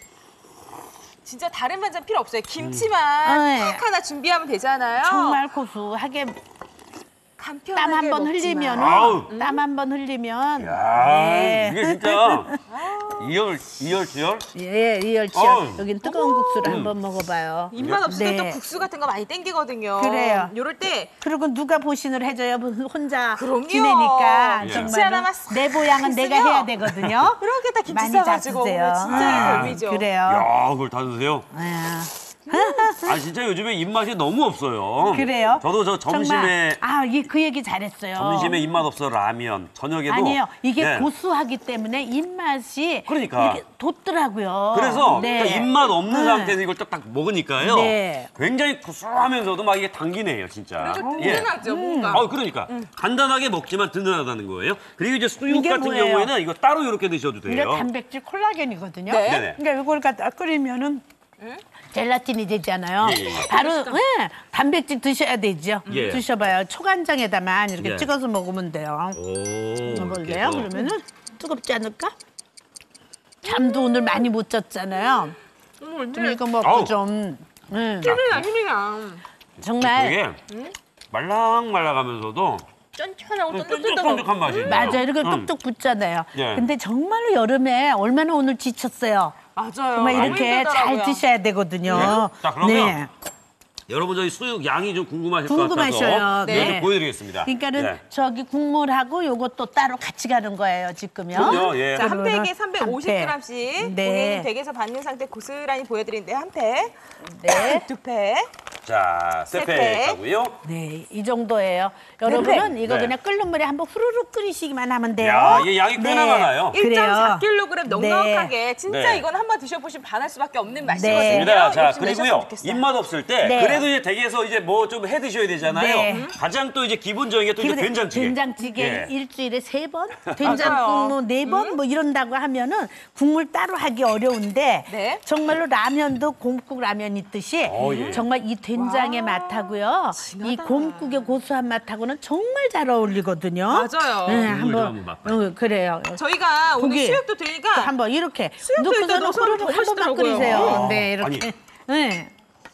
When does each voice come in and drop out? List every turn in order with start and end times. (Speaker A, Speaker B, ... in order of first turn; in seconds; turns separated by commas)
Speaker A: 1.2-5.4, Speaker B: 2.6-2.9, Speaker C: 3.2-3.8, Speaker C: 5.0-6.4, Speaker A: 7.4-9.6, Speaker C: 7.8-12.6, Speaker B: 8.8-9.3, Speaker B: 10.6-12.5, Speaker A: 12.7-13.3, Speaker B: 13.1-14.5, Speaker C: 14.6-18.6, Speaker B: 15.3-15.9, Speaker A: 16.0-16.8, Speaker B: 16.6-16.9, Speaker A: 17.7-21.1, Speaker B: 17.8-18.1, Speaker C: 20.0-20.5, Speaker C: 21.2-30.5, Speaker A: 23.3-30.1, Speaker B: 24.6-24.9, Speaker B: 26.9-27.2, Speaker B: 29.1-31.5, Speaker C: 31.5-33.2, Speaker B: 32.9-36.8, Speaker C: 35.0-38.6, Speaker B: 38.2-41.1, Speaker C: 40.1-46.6, Speaker B: 43.1-43.6, Speaker B: 44.7-51.5, Speaker A: 45.0-45.5, Speaker C: 47.6-48.3, Speaker A: 50.8-52.9, Speaker C: 50.9-52.2, Speaker B: 52.1-57.9, Speaker C: 55.5-56.3, Speaker C: 57.5-61.0, Speaker A: 59.1-59.5, Speaker B: 59.2-59.6, Speaker C: 61.9-69.2, Speaker B: 63.0-63.5, Speaker A: 63.4-64.0, Speaker A: 65.9-66.2, Speaker B: 65.9-66.2, Speaker B: 67.8-68.1, Speaker B: 69.1-70.7, Speaker C: 69.8-72.1, Speaker C: 73.4-75.4, Speaker A: 73.5-74.3, Speaker A: 75.0-75.3, Speaker A: 75.8-76.4, Speaker C: 76.1-78.2, Speaker B: 76.6-77.0, Speaker A: 78.0-79.2, Speaker B: 78.1-78.5, Speaker C: 79.6-80.2, Speaker B: 79.7-80.4, Speaker A: 80.5-80.8, Speaker B: 81.1-82.7, Speaker A: 83.0-85.0, Speaker B: 83.5-85.5, Speaker C: 84.6-89.4, Speaker B: 86.3-86.7, Speaker A: 89.6-91.2, Speaker C: 90.0-93.1, Speaker B: 90.1-90.5, Speaker A: 91.8-92.3, Speaker B: 91.9-93.0, Speaker B: 93.9-98.0, Speaker C: 95.5-104.5, Speaker A: 96.4-96.8, Speaker B: 101.3-102.1, Speaker A: 101.3-107.0, Speaker C: 107.2-107.9, Speaker A: 107.5-108.5, Speaker B: 108.8-110.6, Speaker A: 109.5-110.2, Speaker C: 110.6-118.5, Speaker A: 112.2-112.7, Speaker B: 112.4-113.1, Speaker B: 115.2-116.8, Speaker A: 116.7-122.8, Speaker B: 118.9-119.3, Speaker C: 120.9-121.5, Speaker B: 121.0-129.1, Speaker C: 123.4-123.9, Speaker C: 125.7-126.3, Speaker A: 126.0-126.3, Speaker C: 127.6-147.2, Speaker B: 130.3-130.8, Speaker A: 130.4-131.8, Speaker A: 134.9-135.2, Speaker B: 137.6-138.3, Speaker A: 137.8-141.4, Speaker A: 143.7-144.5, Speaker B: 144.3-145.4, Speaker A: 146.2-147.9, Speaker C: 147.7-152.3, Speaker A: 148.6-151.0, Speaker B: 150.4-151.5